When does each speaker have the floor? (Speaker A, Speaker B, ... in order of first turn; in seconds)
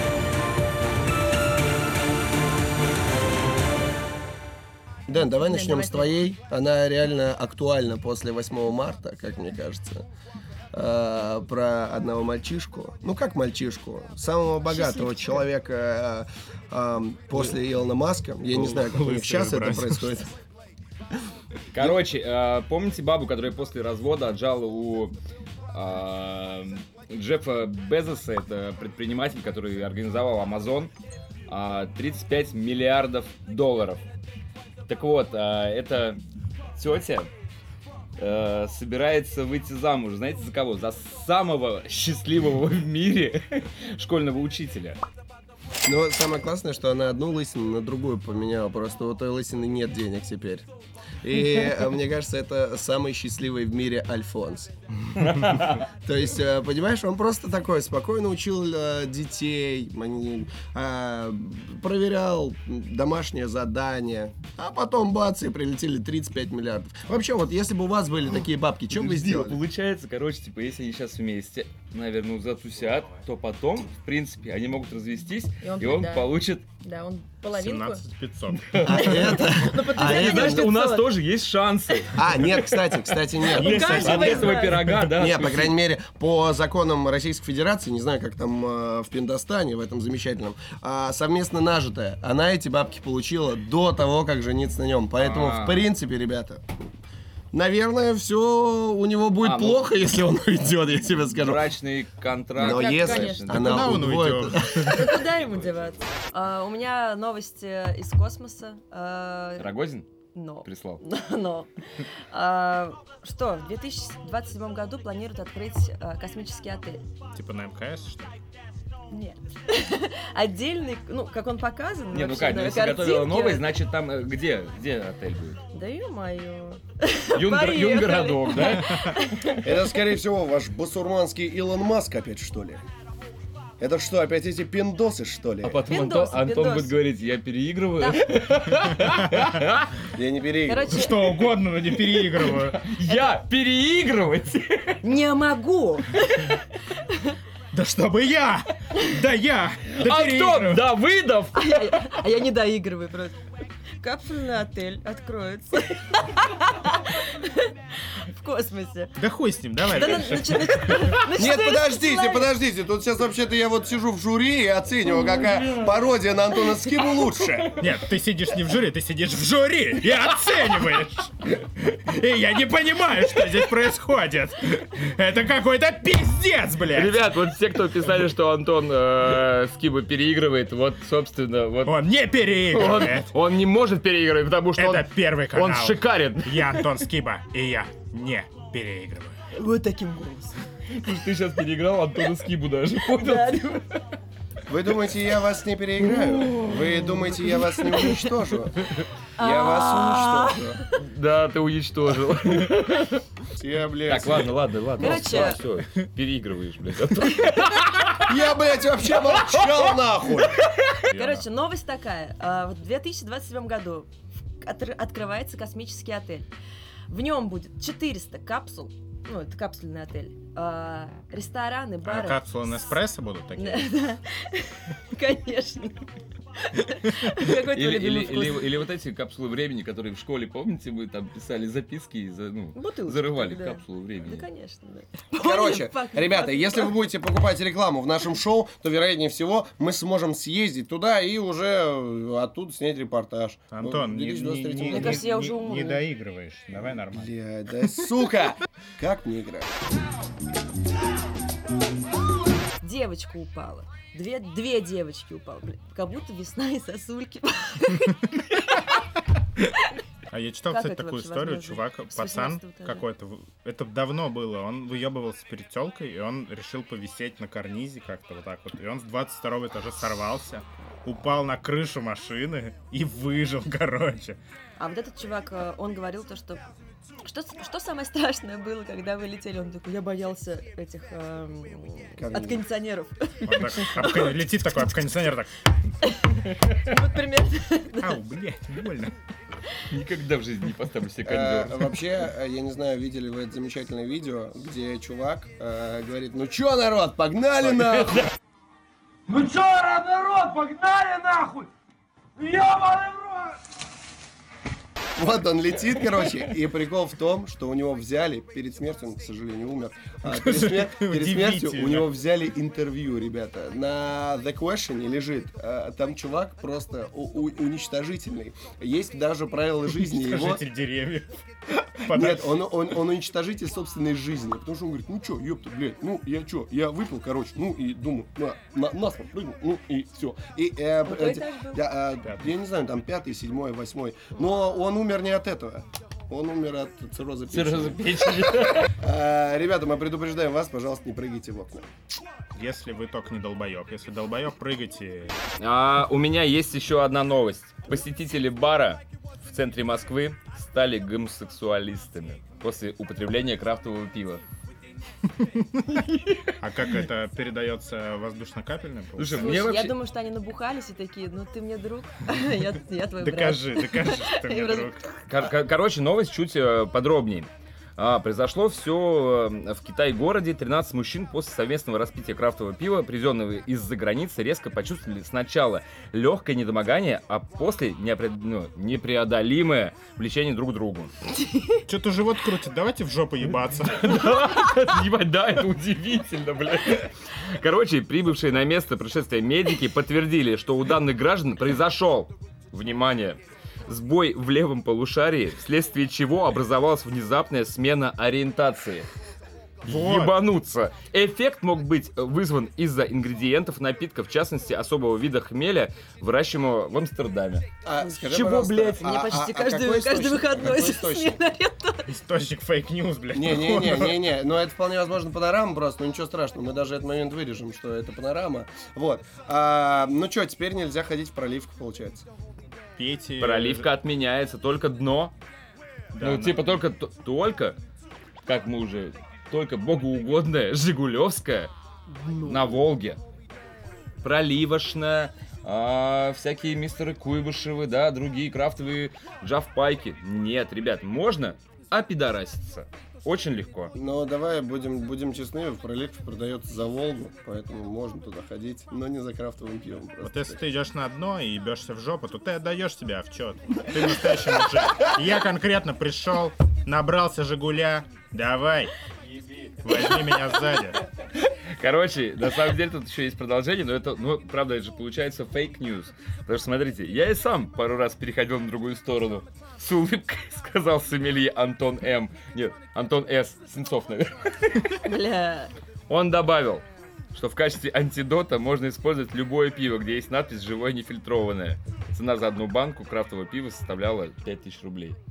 Speaker A: 5.1-10.1, 10.7-20.3, 45.9-50.7, 51.2-54.7, 56.0-69.6, 78.8-80.7, 82.1-96.7, 97.5-101.7, 102.5-105.2, 129.6-132.8, 133.8-135.8, 140.1-141.1, 161.3-167.7, 194.7-200.9, 203.6-205.6, 208.2-210.6, 235.4-245.3, 247.1-249.7, 282.1-282.6, 291.2-298.3, 305.1-320.6, 322.1-341.9, 407.8-411.4, 413.3-422.2, 443.9-450.6
Speaker B: 5.1-6.2, 14.7-15.4, 75.6-78.0, 78.8-81.1, 83.4-85.0, 102.7-103.6, 104.8-109.7, 110.3-117.0, 119.1-123.6, 125.7-129.9, 135.8-137.0, 138.0-138.4, 140.7-141.5, 145.0-147.3, 151.5-153.4, 154.0-159.2, 159.8-162.5, 165.2-165.6, 189.5-190.7, 193.1-193.8, 196.4-198.3, 199.4-200.6, 205.0-205.6, 211.1-216.5, 217.1-223.0, 223.6-226.1, 226.6-228.7, 232.7-236.9, 244.9-246.0, 252.8-258.4, 260.7-263.0, 274.8-276.6, 277.2-285.0, 286.1-288.2, 331.0-331.8, 359.3-365.0, 381.4-381.8, 409.0-412.1, 432.1-432.8, 475.0-475.7
Speaker C: 18.5-20.2, 77.5-78.9, 83.8-84.5, 103.5-105.0, 117.3-118.3, 140.9-142.8, 147.7-150.8, 159.2-161.2, 167.8-177.3, 181.8-183.3, 184.8-189.3, 211.1-211.4, 222.0-224.0, 243.7-247.3, 260.3-274.4, 283.4-285.5, 288.0-289.1, 310.3-312.1, 319.9-322.6, 342.5-345.4, 356.6-359.6, 363.2-365.0, 381.9-384.3, 399.9-400.4, 412.1-414.2, 423.0-423.9, 426.1-426.8, 450.2-458.9, 459.8-461.0
Speaker D: 21.7-25.1, 25.7-30.9, 31.5-34.0, 34.9-36.2, 36.8-37.3, 38.2-45.0, 55.1-55.8, 68.9-76.6, 78.6-85.7, 95.2-95.8, 99.4-99.9, 101.3-104.0, 109.6-110.0, 110.6-111.0, 122.1-125.6, 127.3-129.5, 135.6-140.0, 141.8-145.0, 149.9-152.2, 176.9-181.9, 182.7-186.8, 190.9-193.9, 200.9-203.2, 204.1-208.3, 209.3-209.8, 227.5-234.4, 289.9-291.8, 297.8-298.3, 337.5-338.9, 345.6-354.4, 355.9-356.5, 359.2-359.9, 365.3-381.1, 384.0-399.1, 399.8-407.6, 408.2-409.1, 423.4-425.3, 426.2-427.8, 428.4-431.7, 432.4-433.2, 434.2-443.9, 461.4-475.0, 476.1-485.2
Speaker E: 299.3-301.7, 302.4-303.6